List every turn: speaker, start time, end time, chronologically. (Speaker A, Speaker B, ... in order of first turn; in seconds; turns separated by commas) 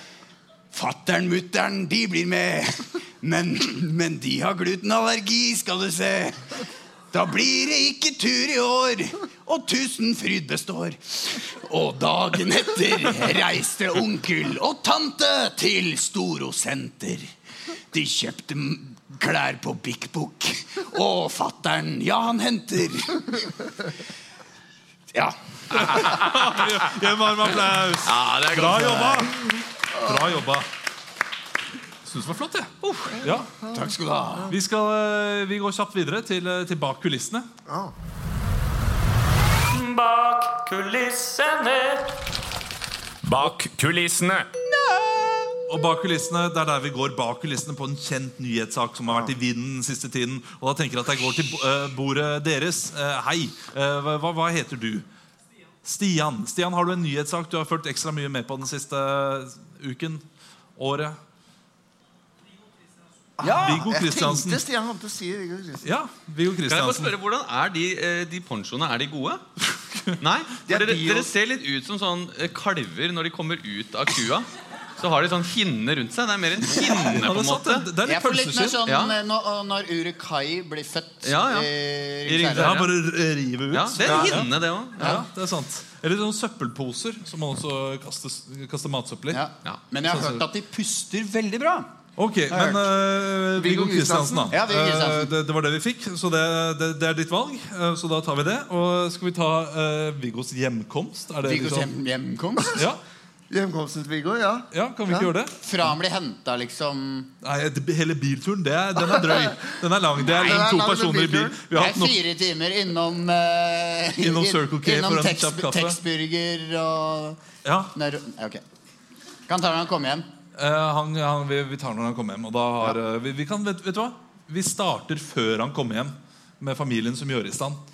Speaker A: 0.7-6.4, Speaker A: 7.1-17.3, Speaker A: 17.9-23.5, Speaker B: 25.7-30.7, Speaker C: 25.9-26.3, Speaker C: 28.0-29.3, Speaker D: 30.0-30.2, Speaker B: 32.0-33.5, Speaker C: 32.8-33.2, Speaker D: 33.3-33.9, Speaker A: 33.7-34.5, Speaker B: 34.5-37.5, Speaker D: 37.7-37.9, Speaker E: 39.7-42.0, Speaker E: 43.2-44.5, Speaker B: 45.7-55.0, Speaker B: 55.8-60.2, Speaker B: 60.8-61.2, Speaker D: 63.4-65.9, Speaker A: 63.4-63.8, Speaker B: 63.5-64.6, Speaker B: 65.8-67.1, Speaker C: 66.7-69.4, Speaker B: 69.9-70.1, Speaker C: 70.2-74.5, Speaker D: 70.7-71.3, Speaker C: 75.0-77.9, Speaker B: 76.8-78.8, Speaker A: 78.0-82.8, Speaker C: 78.9-79.1, Speaker C: 81.2-81.7, Speaker C: 82.2-82.9, Speaker B: 82.5-89.4, Speaker C: 83.7-85.2, Speaker D: 84.0-84.4, Speaker A: 89.3-91.9, Speaker B: 90.0-90.4, Speaker B: 92.2-101.9, Speaker A: 92.5-92.9, Speaker D: 93.5-94.5, Speaker A: 94.5-95.3, Speaker A: 101.4-102.8, Speaker B: 102.7-103.0, Speaker D: 103.5-105.3, Speaker B: 104.7-105.5, Speaker A: 105.6-107.3, Speaker B: 107.4-112.2, Speaker D: 109.0-109.5, Speaker D: 110.2-111.6, Speaker A: 111.7-117.4, Speaker B: 114.2-116.0, Speaker B: 117.6-117.9, Speaker A: 117.9-118.6, Speaker A: 119.5-120.2, Speaker B: 120.5-127.8